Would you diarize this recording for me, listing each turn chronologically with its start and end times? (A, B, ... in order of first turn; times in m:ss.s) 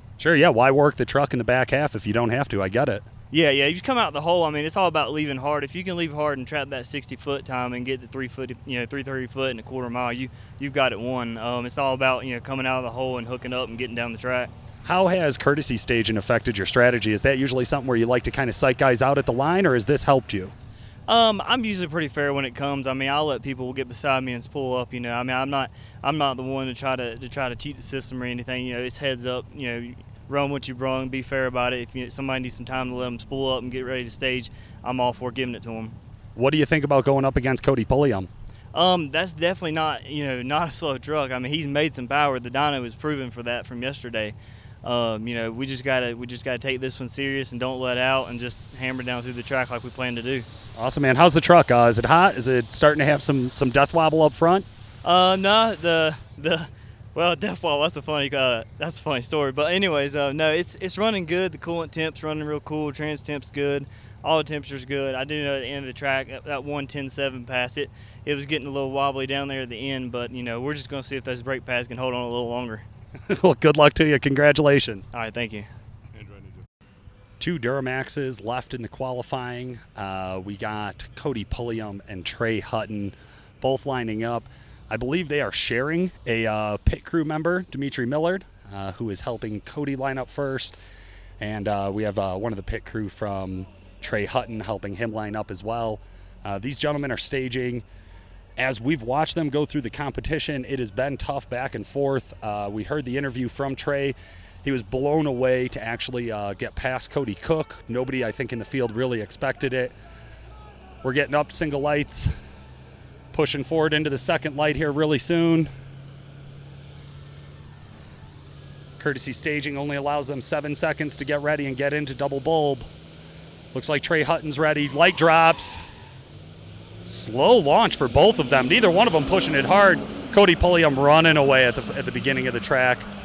0:00.2-0:03.0 A
0:03.3-0:14.5 B
0:14.8-0:20.5 A
0:21.1-0:36.0 B
0:36.4-0:38.3 A
0:38.7-0:50.5 B
0:50.8-0:54.7 A
0:55.0-1:12.8 B
1:13.3-1:15.1 A
1:15.1-1:15.7 B
1:17.4-1:30.8 A
1:31.4-1:37.8 A
1:38.6-1:50.0 A
1:51.0-1:52.3 A
1:53.3-1:55.7 A
1:59.0-2:02.9 A
2:03.7-2:05.8 A
2:07.1-2:13.1 A